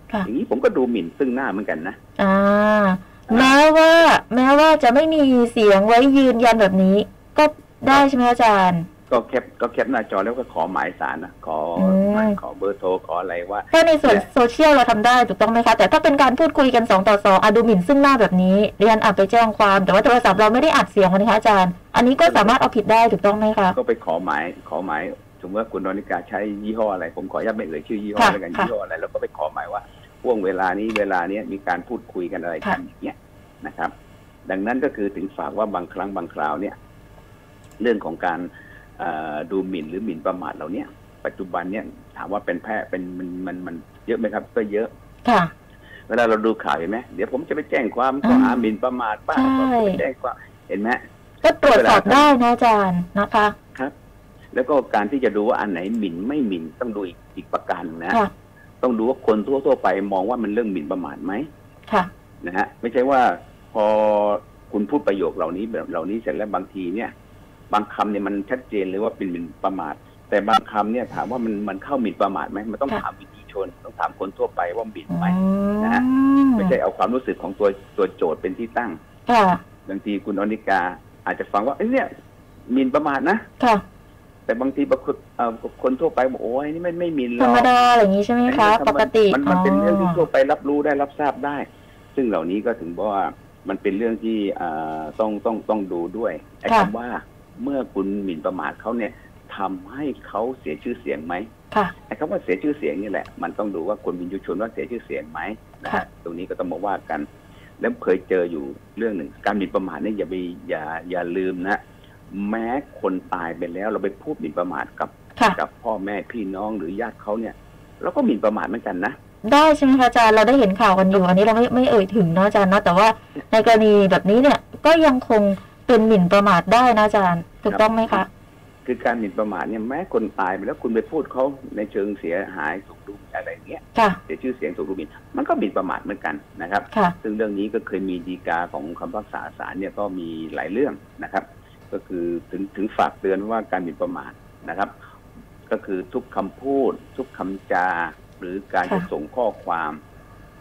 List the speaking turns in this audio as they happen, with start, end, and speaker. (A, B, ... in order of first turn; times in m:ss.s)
0:00.2-0:02.0 A
0:02.2-0:08.9 B
0:03.3-0:03.6 A
0:09.1-0:14.2 A
0:11.8-0:12.4 B
0:13.7-0:23.7 B
0:22.2-0:22.6 A
0:23.7-0:33.9 A
0:28.2-0:28.7 B
0:34.4-0:36.7 A
0:37.8-0:44.9 A
0:45.2-0:45.5 B
0:46.1-0:51.0 A
0:48.2-0:48.6 B
0:49.3-0:50.0 B
0:51.4-0:53.5 B
0:51.6-0:52.3 A
0:54.5-0:58.2 A
0:58.8-1:01.5 A
1:02.4-1:07.1 A
1:07.7-1:16.0 A
1:15.1-1:16.7 B
1:16.6-1:19.0 A
1:19.3-1:19.6 B
1:19.8-1:22.1 A
1:22.7-1:23.4 A
1:24.4-1:27.7 A
1:27.4-1:30.2 B
1:28.4-1:41.5 A
1:42.1-1:47.3 A
1:47.8-1:51.8 A
1:52.3-1:59.2 A
1:59.4-2:08.3 B
2:07.7-2:08.2 A
2:08.8-2:24.9 A
2:25.7-2:30.0 A